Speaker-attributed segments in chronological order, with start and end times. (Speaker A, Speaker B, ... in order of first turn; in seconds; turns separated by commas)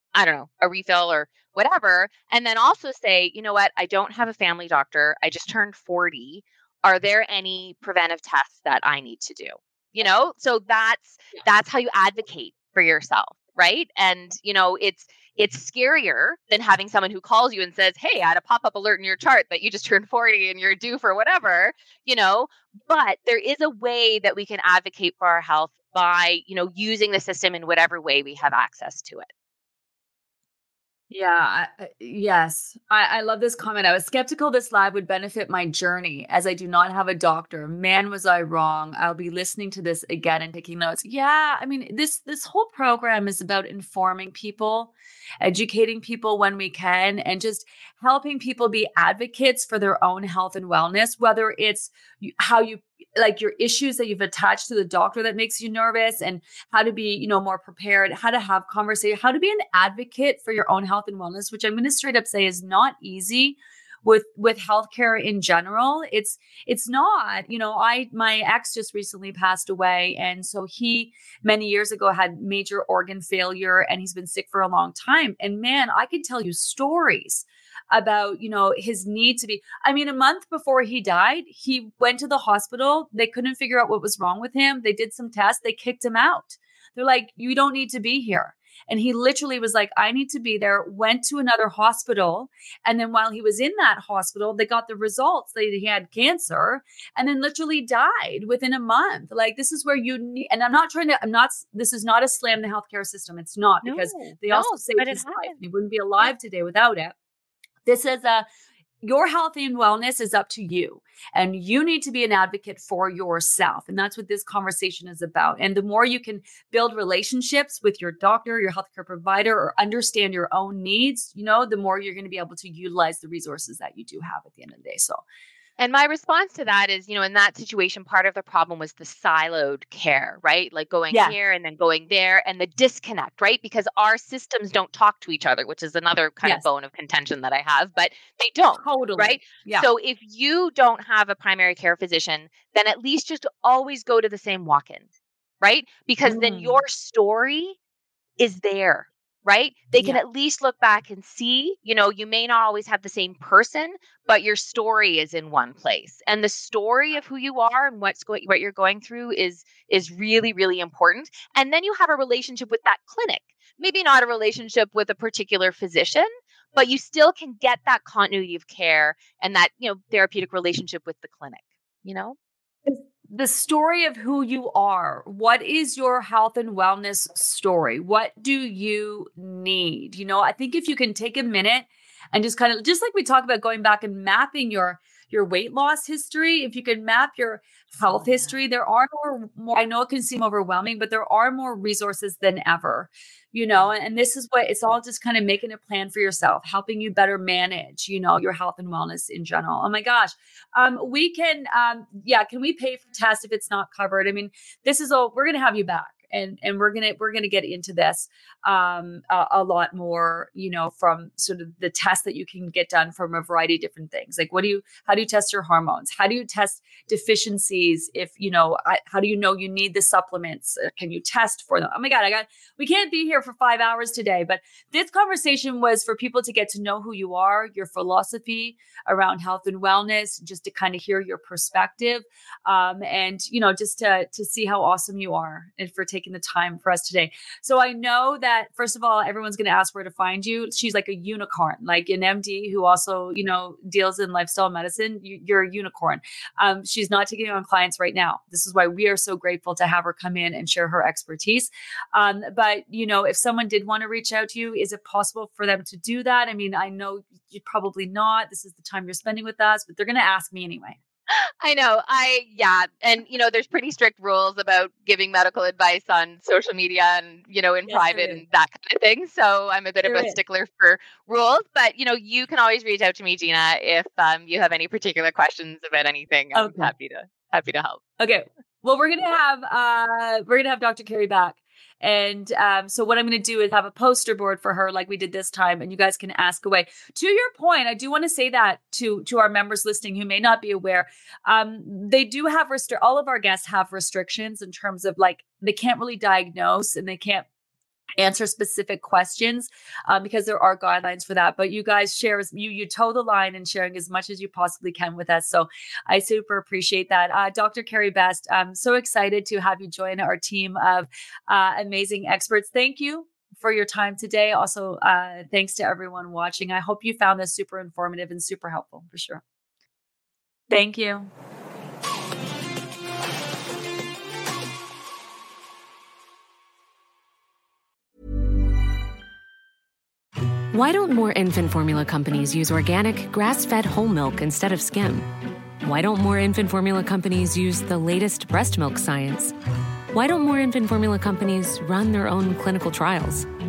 Speaker A: 0.1-29.3, Speaker B: 31.1-107.2, Speaker A: 103.8-105.6, Speaker B: 107.9-108.5, Speaker B: 109.0-125.2, Speaker A: 125.8-145.1, Speaker B: 131.1-131.3, Speaker B: 138.7-139.9, Speaker A: 145.6-147.8, Speaker B: 146.2-146.8, Speaker A: 148.4-172.4, Speaker B: 172.9-261.0, Speaker A: 188.1-188.5, Speaker A: 261.3-278.0, Speaker B: 267.9-268.4, Speaker B: 270.0-270.4, Speaker B: 276.5-276.9, Speaker B: 278.2-297.4, Speaker B: 298.2-319.4, Speaker B: 320.7-321.3, Speaker C: 330.7-335.3, Speaker C: 335.8-339.6, Speaker C: 340.1-343.5